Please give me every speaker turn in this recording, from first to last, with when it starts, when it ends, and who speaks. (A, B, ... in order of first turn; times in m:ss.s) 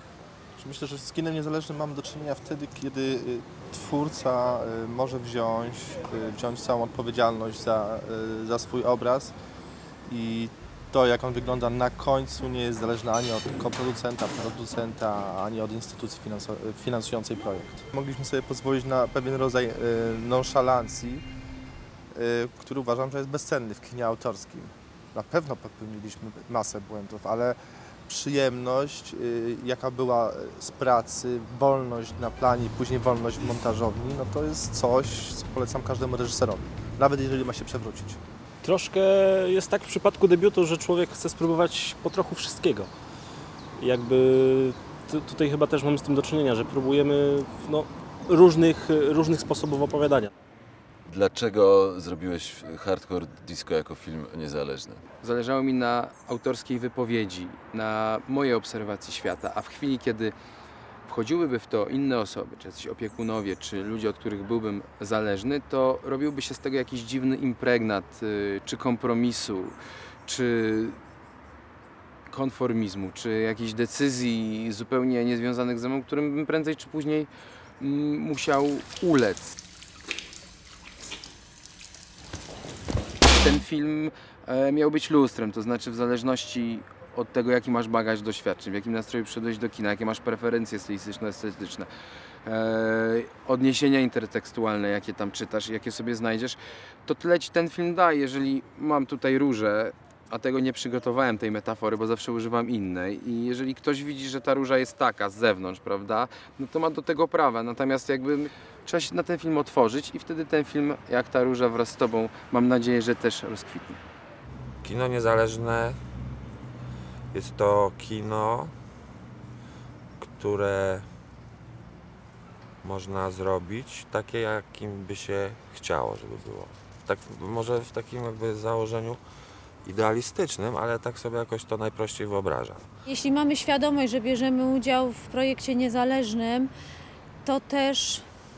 0:00.6-0:09.3 A
0:10.1-0:21.2 A
0:22.1-0:38.2 A
0:38.6-0:42.9 B
0:43.8-0:50.3 B
0:51.1-0:55.0 C
0:55.2-1:00.4 D
1:01.1-1:11.0 D
1:12.3-1:17.3 D
1:17.8-1:19.5 D
1:23.3-1:31.9 D
1:32.4-1:54.0 D
1:54.8-1:56.0 E
1:57.3-1:58.7 E
2:00.2-2:01.1 E
2:02.8-2:09.2 E
2:09.8-2:12.8 E
2:13.1-2:16.7 F
2:17.4-2:18.3 F